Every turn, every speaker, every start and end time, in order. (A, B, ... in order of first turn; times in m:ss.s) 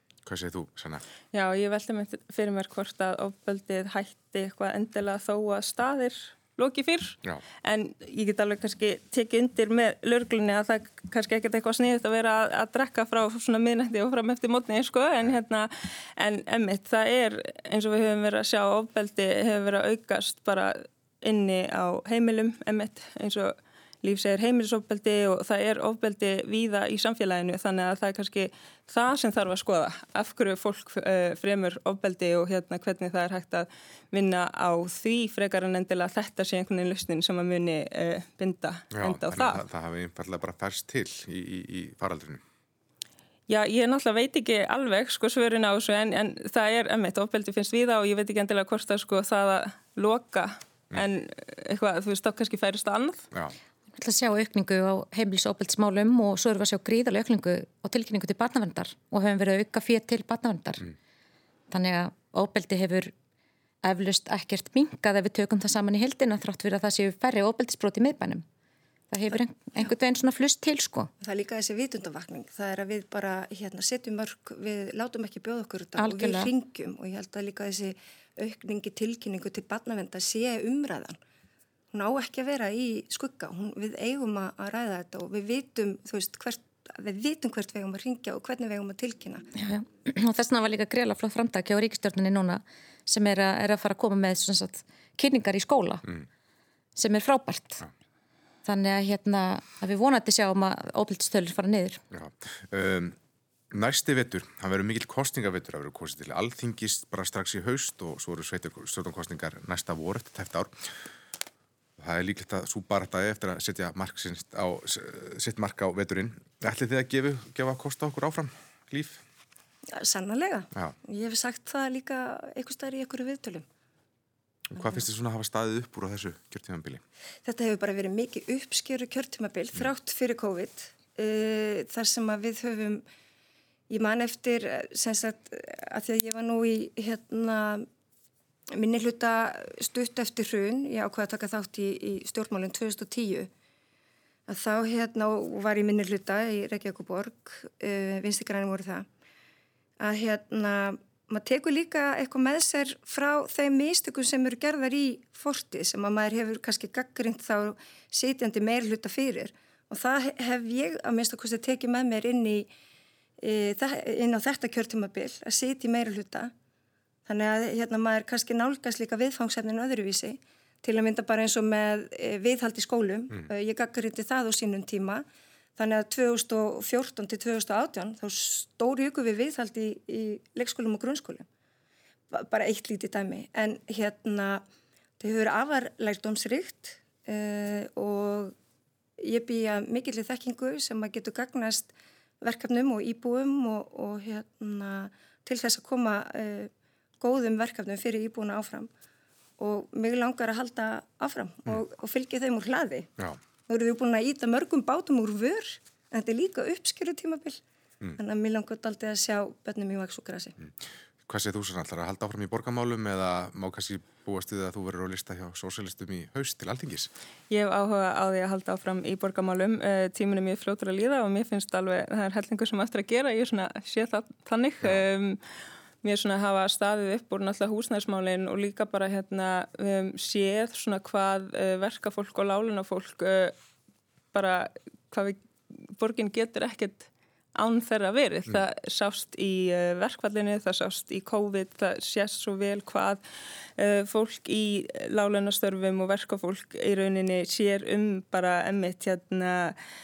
0:00.2-0:01.0 A
0:01.3-0:39.6 B
0:38.9-0:42.4 A
0:43.5-0:53.3 B
0:53.9-1:00.9 C
1:01.7-1:03.1 C
1:03.8-1:08.4 C
1:09.1-1:11.1 C
1:11.2-1:21.2 D
1:16.0-1:16.5 C
1:21.9-1:29.4 D
1:29.5-1:36.0 C
1:37.0-1:37.8 C
1:38.6-1:42.0 C
1:42.1-1:43.2 A
1:43.7-1:50.9 A
1:52.0-1:59.2 A
1:59.9-2:03.6 D
2:04.7-2:07.0 A
2:07.4-2:13.0 D
2:13.9-2:17.8 D
2:18.7-2:23.5 D
2:24.5-2:29.0 D
2:30.0-2:42.7 D
2:43.4-2:46.5 D
2:47.2-2:55.2 D
2:55.8-3:01.4 D
3:02.3-3:04.6 D
3:05.2-3:08.5 D
3:09.2-3:18.9 D
3:19.6-3:23.1 D
3:23.7-3:27.6 D
3:28.2-3:30.6 D
3:31.2-3:37.1 A
3:37.5-3:45.4 B
3:46.0-3:53.5 B
3:54.3-4:03.2 B
4:03.8-4:09.8 B